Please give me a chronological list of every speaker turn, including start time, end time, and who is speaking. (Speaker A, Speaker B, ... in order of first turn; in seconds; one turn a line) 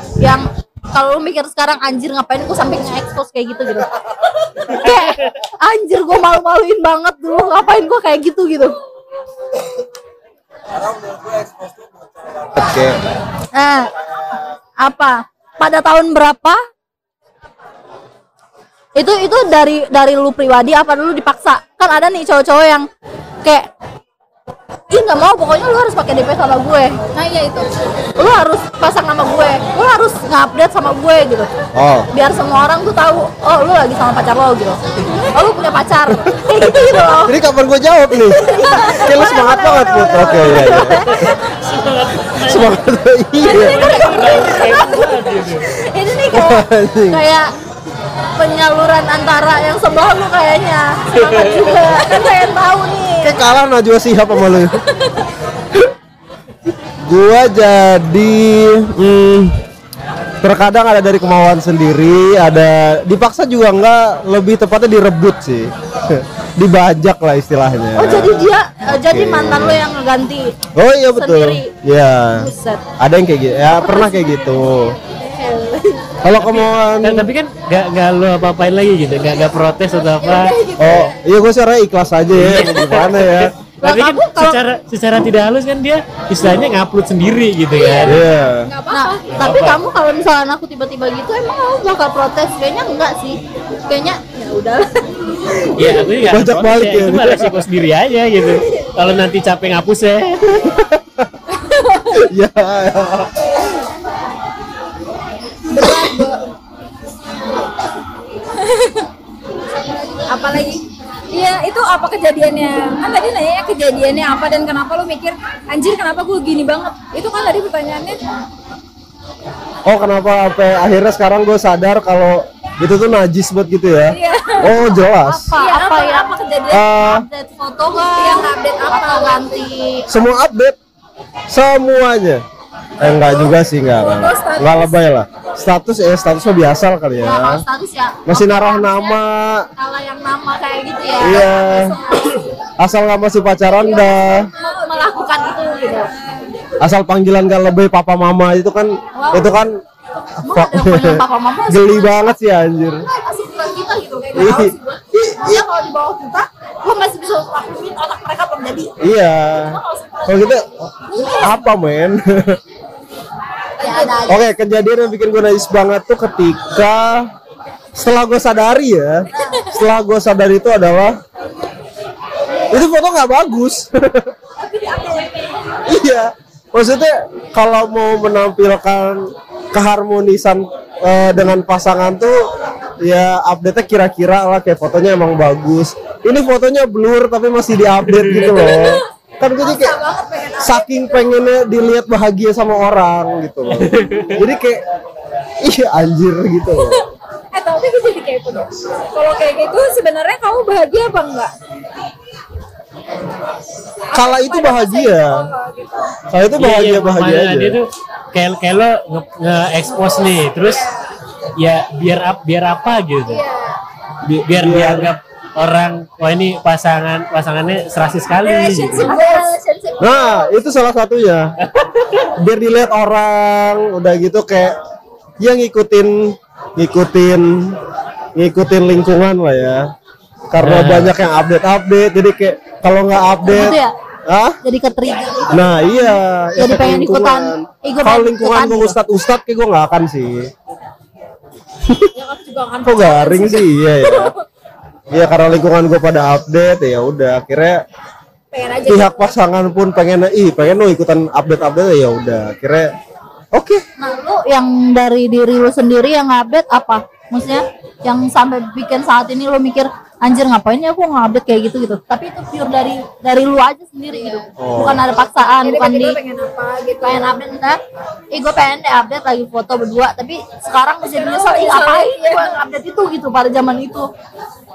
Speaker A: 0.2-3.9
Speaker A: 4.7-8.8
Speaker B: 5.0-5.3
Speaker C: 10.7-13.0
Speaker A: 13.5-13.9
Speaker C: 14.1-14.4
Speaker A: 14.8-16.6
Speaker A: 18.9-22.9
Speaker A: 24.9-27.0
Speaker D: 27.1-27.7
Speaker A: 28.1-31.5
Speaker C: 31.7-32.1
Speaker A: 32.1-34.8
Speaker A: 35.3-37.3
Speaker C: 36.1-41.4
Speaker A: 38.4-41.4
Speaker D: 38.6-39.5
Speaker D: 40.2-40.8
Speaker B: 40.8-42.8
Speaker C: 42.4-43.9
Speaker A: 43.5-45.2
Speaker B: 43.5-45.7
Speaker D: 44.0-44.8
Speaker A: 45.7-47.5
Speaker C: 46.3-47.2
Speaker A: 48.3-53.4
Speaker B: 51.1-51.7
Speaker D: 52.0-52.5
Speaker C: 53.2-54.8
Speaker C: 57.0-59.6
Speaker C: 60.4-69.8
Speaker A: 68.0-70.5
Speaker C: 70.7-75.0
Speaker A: 71.1-71.7
Speaker A: 72.4-72.8
Speaker A: 73.8-74.6
Speaker A: 75.1-76.1
Speaker C: 76.2-77.3
Speaker B: 76.3-80.6
Speaker A: 80.2-81.1
Speaker C: 80.8-83.5
Speaker B: 82.3-88.2
Speaker A: 83.8-84.6
Speaker A: 87.7-88.2
Speaker C: 88.0-88.7
Speaker D: 88.6-89.2
Speaker A: 88.9-95.0
Speaker B: 89.3-89.8
Speaker B: 95.7-100.8
Speaker C: 95.8-97.6
Speaker C: 100.7-101.2
Speaker D: 101.5-102.2
Speaker C: 102.1-103.5
Speaker D: 105.7-106.4
Speaker D: 108.6-109.0
Speaker D: 109.9-118.2
Speaker C: 119.8-125.5
Speaker D: 124.1-124.8
Speaker A: 125.1-130.1
Speaker D: 125.5-126.8
Speaker C: 126.7-127.2
Speaker D: 128.1-129.6
Speaker C: 130.1-130.8
Speaker C: 131.5-132.4
Speaker C: 133.0-137.6
Speaker D: 134.0-134.9
Speaker A: 137.2-139.2
Speaker C: 138.3-139.7
Speaker A: 139.8-142.4
Speaker D: 141.1-142.1
Speaker C: 141.2-141.9
Speaker C: 142.8-144.5
Speaker A: 143.7-146.1
Speaker D: 144.6-144.9
Speaker D: 146.2-146.5
Speaker C: 146.8-149.8
Speaker A: 149.2-149.5
Speaker A: 150.4-152.3
Speaker C: 150.4-153.1
Speaker A: 153.1-158.9
Speaker D: 154.3-154.6
Speaker C: 154.3-155.7
Speaker C: 159.0-162.6
Speaker A: 159.7-161.5
Speaker D: 163.8-164.3
Speaker A: 163.8-164.5
Speaker C: 164.3-167.3
Speaker C: 167.9-171.2
Speaker C: 172.7-174.3
Speaker C: 175.9-182.5
Speaker C: 183.0-190.0
Speaker B: 188.0-188.6
Speaker D: 188.5-189.0
Speaker D: 189.6-191.2
Speaker C: 190.6-194.8
Speaker B: 193.7-194.4
Speaker C: 195.6-197.0
Speaker D: 197.5-201.5
Speaker D: 204.1-206.1
Speaker C: 204.1-205.5
Speaker C: 206.3-207.8
Speaker B: 206.6-210.9
Speaker D: 210.0-211.0
Speaker B: 211.6-213.4
Speaker D: 213.3-213.8
Speaker C: 214.2-215.1
Speaker B: 214.5-219.1
Speaker D: 218.4-220.4
Speaker A: 218.9-220.5
Speaker C: 220.0-221.5
Speaker B: 221.6-222.3
Speaker C: 222.3-224.8
Speaker C: 225.4-227.8
Speaker C: 228.3-229.9
Speaker C: 230.5-234.6
Speaker B: 230.6-231.1
Speaker A: 233.4-233.9
Speaker A: 234.6-238.9
Speaker C: 235.5-240.5
Speaker C: 241.8-242.1
Speaker D: 242.2-244.3
Speaker C: 242.8-244.3
Speaker C: 245.1-247.8
Speaker D: 248.5-249.3
Speaker C: 248.9-252.9
Speaker C: 253.5-253.8
Speaker A: 254.0-266.2
Speaker D: 264.1-264.4
Speaker C: 264.6-265.0
Speaker D: 265.6-267.3
Speaker A: 267.0-274.1
Speaker D: 271.1-272.5